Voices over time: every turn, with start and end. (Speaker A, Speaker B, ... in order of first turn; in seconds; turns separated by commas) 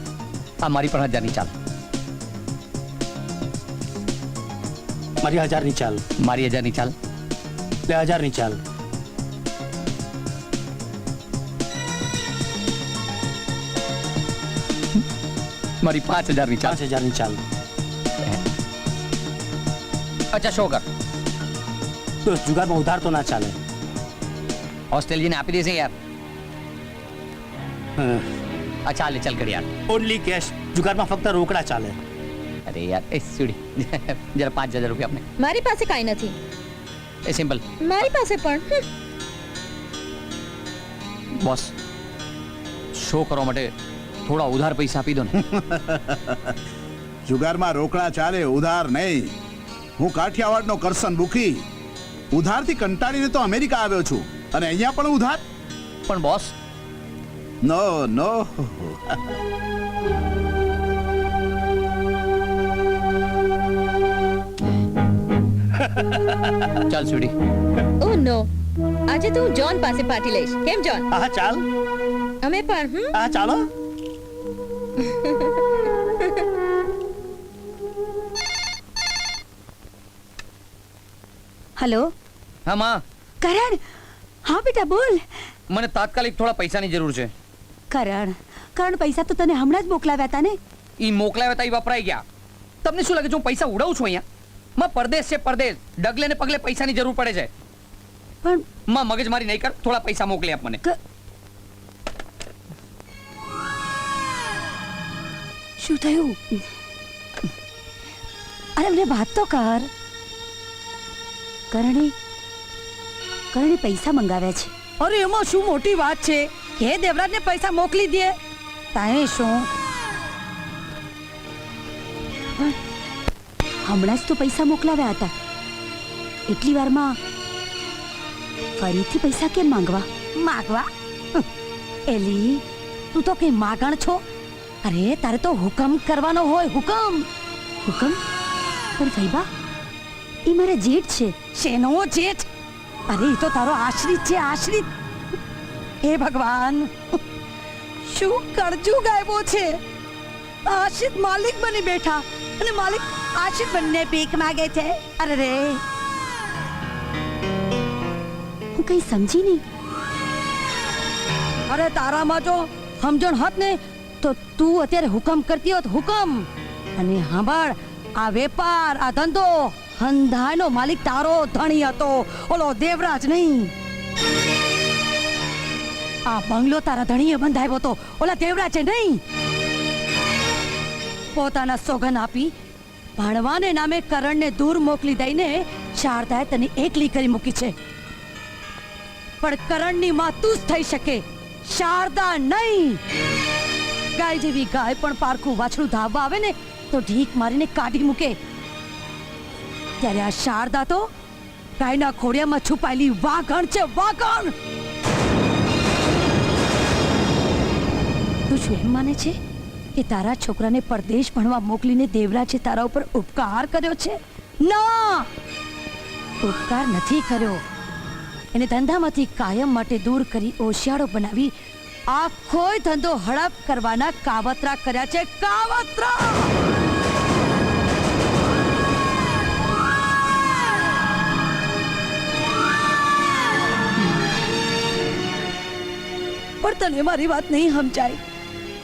Speaker A: 0.6-1.5, Speaker B: 5.2-6.0, Speaker A: 6.2-6.9, Speaker B: 7.9-8.6, Speaker A: 15.8-16.8, Speaker B: 16.6-17.4, Speaker A: 20.3-20.8, Speaker B: 22.2-23.6, Speaker A: 24.9-25.9, Speaker A: 28.9-29.7, Speaker B: 29.9-31.9, Speaker A: 32.7-35.2, Speaker C: 35.4-36.3, Speaker A: 37.2-37.6, Speaker C: 37.8-38.7, Speaker A: 41.4-41.7, Speaker A: 43.0-43.7, Speaker A: 44.2-45.3, Speaker D: 45.4-46.5, Speaker D: 47.2-49.3, Speaker D: 50.0-51.6, Speaker D: 52.3-55.4, Speaker A: 56.1-56.5, Speaker D: 57.6-59.0, Speaker A: 66.9-67.3, Speaker C: 68.0-68.5, Speaker C: 69.1-71.0, Speaker B: 71.1-71.6, Speaker C: 72.4-73.1, Speaker B: 73.1-73.7, Speaker E: 81.8-82.1, Speaker A: 82.7-83.0, Speaker E: 83.4-83.8, Speaker E: 84.5-85.2, Speaker A: 85.7-87.3, Speaker E: 87.9-90.5, Speaker A: 91.0-92.2, Speaker A: 92.8-94.2, Speaker A: 94.8-97.5, Speaker A: 98.9-100.8, Speaker F: 108.8-109.9, Speaker E: 111.7-112.1, Speaker E: 113.5-114.7, Speaker F: 115.0-118.4, Speaker F: 118.9-119.7, Speaker E: 123.9-125.3, Speaker E: 126.5-127.2, Speaker E: 128.8-130.1, Speaker F: 130.3-131.4, Speaker F: 132.1-132.6, Speaker F: 133.1-134.2, Speaker F: 134.8-137.3, Speaker E: 137.8-138.2, Speaker E: 139.0-139.5, Speaker E: 140.5-141.3, Speaker F: 141.5-142.5, Speaker F: 143.1-144.9, Speaker F: 146.0-147.0, Speaker F: 148.1-149.8, Speaker F: 150.7-155.8, Speaker E: 158.8-159.6, Speaker F: 161.7-173.7, Speaker F: 176.2-179.2, Speaker F: 181.3-182.5, Speaker F: 183.2-187.8, Speaker F: 189.4-193.0, Speaker F: 194.2-198.3, Speaker F: 200.0-201.1, Speaker F: 201.8-204.5, Speaker F: 208.5-209.4, Speaker F: 209.9-215.3, Speaker F: 216.4-217.6, Speaker F: 218.5-221.5, Speaker F: 222.1-226.5, Speaker F: 236.6-238.2